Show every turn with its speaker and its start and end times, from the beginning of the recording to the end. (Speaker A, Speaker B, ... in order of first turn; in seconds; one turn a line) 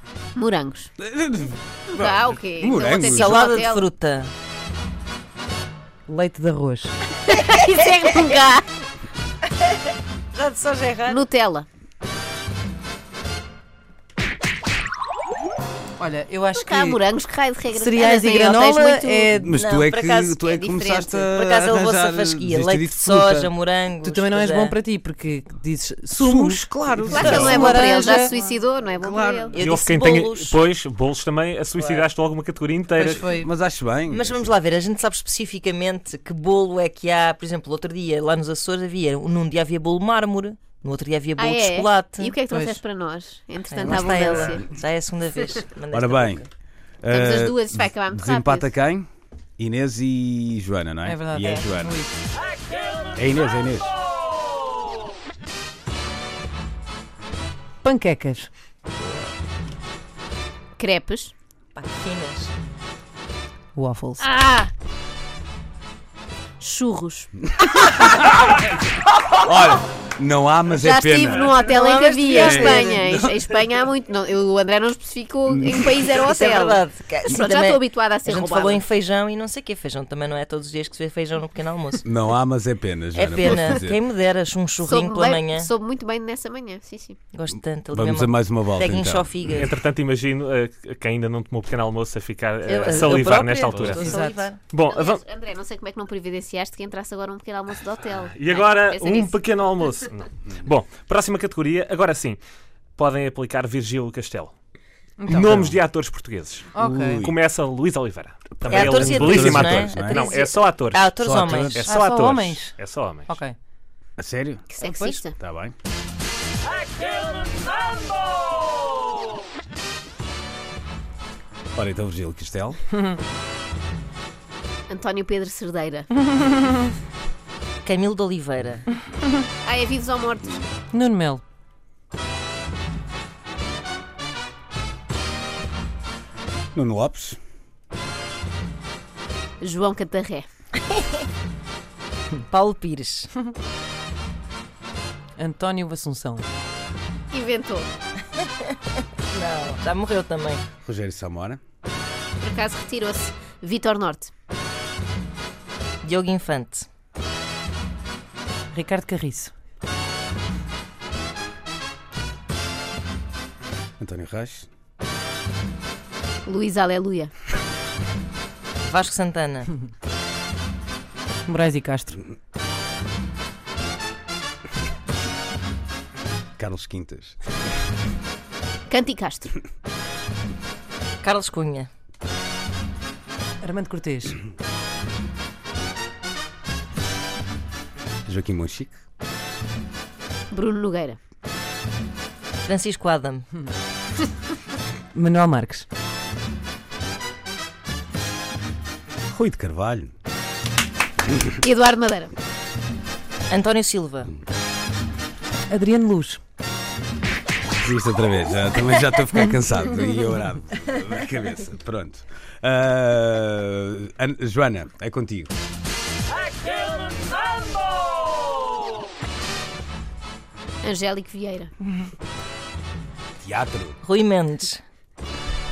Speaker A: 0.3-0.9
Speaker B: 1.0-3.4
Speaker A: 1.9-3.9
Speaker C: 3.1-4.3
Speaker D: 6.1-7.0
Speaker A: 7.2-8.7
Speaker C: 10.3-11.2
Speaker A: 11.1-11.7
Speaker D: 16.0-17.0
Speaker A: 16.6-19.3
Speaker D: 17.7-19.6
Speaker B: 19.3-23.5
Speaker C: 19.6-20.6
Speaker A: 20.6-21.3
Speaker C: 21.3-24.7
Speaker D: 24.0-28.4
Speaker B: 26.1-27.9
Speaker A: 27.1-29.6
Speaker B: 29.0-29.5
Speaker C: 29.5-30.6
Speaker E: 29.6-33.3
Speaker C: 31.8-32.0
Speaker D: 33.0-33.5
Speaker B: 33.0-34.5
Speaker C: 34.1-42.3
Speaker A: 41.4-44.7
Speaker D: 42.4-42.8
Speaker C: 43.7-46.4
Speaker B: 45.9-46.4
Speaker B: 47.0-52.0
Speaker A: 47.1-48.7
Speaker D: 51.0-52.1
Speaker B: 53.1-53.9
Speaker D: 57.8-58.5
Speaker A: 60.8-61.3
Speaker C: 61.7-62.5
Speaker D: 63.7-64.2
Speaker A: 64.2-64.7
Speaker A: 66.6-67.3
Speaker B: 69.4-71.6
Speaker A: 70.7-78.8
Speaker C: 71.7-73.0
Speaker B: 72.3-73.4
Speaker B: 75.5-75.8
Speaker C: 76.2-82.0
Speaker B: 82.0-84.0
Speaker C: 83.2-85.6
Speaker A: 84.8-87.2
Speaker C: 87.3-89.7
Speaker B: 87.5-89.6
Speaker E: 89.5-94.2
Speaker C: 92.7-94.6
Speaker D: 93.9-94.5
Speaker E: 94.7-95.2
Speaker A: 94.8-99.3
Speaker E: 98.1-102.4
Speaker E: 103.0-104.5
Speaker D: 105.2-105.7
Speaker E: 105.2-106.7
Speaker B: 105.5-105.7
Speaker D: 106.7-107.3
Speaker B: 106.8-107.3
Speaker E: 107.2-113.3
Speaker B: 108.6-110.2
Speaker C: 108.7-110.0
Speaker A: 110.0-110.6
Speaker C: 110.9-111.8
Speaker B: 111.2-112.0
Speaker D: 111.8-112.8
Speaker D: 113.3-113.5
Speaker B: 114.2-114.7
Speaker A: 114.7-115.3
Speaker D: 114.8-115.2
Speaker B: 115.4-115.7
Speaker B: 121.7-122.8
Speaker A: 124.9-126.1
Speaker D: 126.3-126.7
Speaker C: 127.8-128.8
Speaker A: 129.6-130.7
Speaker D: 130.9-131.4
Speaker B: 136.7-137.4
Speaker A: 139.6-140.4
Speaker C: 142.5-143.3
Speaker D: 145.4-146.5
Speaker A: 147.3-147.9
Speaker C: 149.3-150.6
Speaker B: 150.8-151.6
Speaker A: 152.4-154.3
Speaker C: 156.0-156.9
Speaker D: 158.7-159.5
Speaker B: 164.0-164.7
Speaker A: 166.4-167.3
Speaker C: 168.8-169.7
Speaker D: 171.4-172.2
Speaker B: 176.6-177.4
Speaker A: 178.9-179.5
Speaker C: 181.2-181.9
Speaker D: 183.6-184.4
Speaker B: 188.2-189.0
Speaker A: 190.5-191.2
Speaker C: 192.6-193.4
Speaker D: 195.1-195.9
Speaker B: 199.3-200.1
Speaker A: 201.6-202.3
Speaker C: 203.5-204.3
Speaker D: 205.7-206.4
Speaker B: 207.8-215.5
Speaker A: 220.8-221.7
Speaker B: 223.4-224.0
Speaker C: 224.0-224.8